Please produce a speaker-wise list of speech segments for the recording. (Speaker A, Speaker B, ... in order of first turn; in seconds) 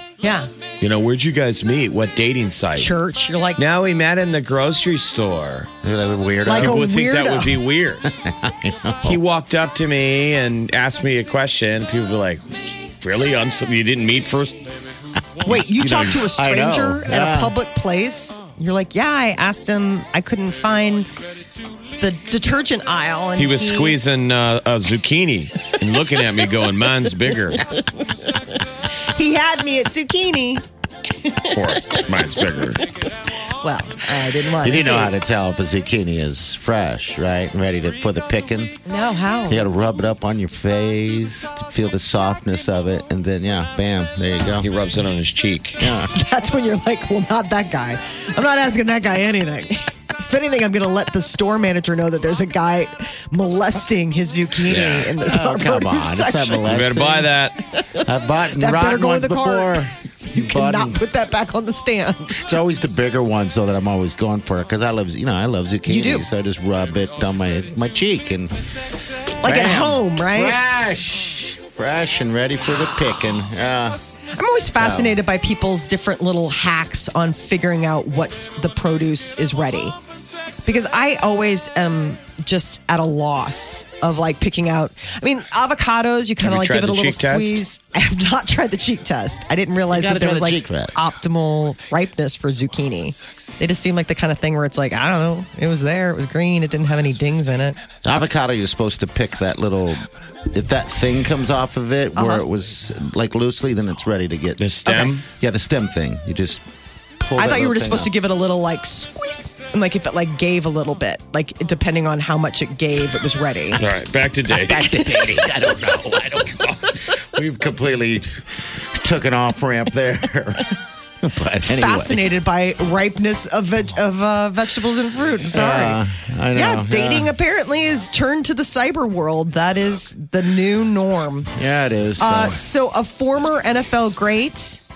Speaker A: 0.2-0.5, 2.8-3.6, 6.5-7.6, 15.4-21.1, 22.0-24.0, 27.3-28.4, 28.9-30.6, 31.2-35.1, 38.9-39.7, 45.8-56.7, 57.7-62.5, 65.9-66.3, 69.4-70.6, 74.3-80.0, 80.7-97.8, 102.2-102.5, 104.9-105.1, 107.4-113.8, 121.7-126.0, 126.5-131.5, 132.2-134.8
Speaker B: 0.8-2.9, 3.6-5.7, 6.5-8.1, 9.0-14.7, 15.7-16.1, 23.4-27.6, 31.5-32.8, 44.6-45.9, 54.7-55.0, 56.7-57.6, 86.4-87.6, 104.6-105.2, 113.8-114.9
Speaker C: 5.8-6.8, 8.0-9.2, 15.4-17.6, 34.6-38.8, 39.5-44.7, 45.8-46.1, 54.7-57.3, 58.0-61.0, 62.4-68.6, 69.4-74.0, 74.8-75.2, 89.9-91.0, 98.0-104.7, 105.2-106.6, 107.2-108.1, 114.5-122.2, 125.5-127.3, 131.5-132.6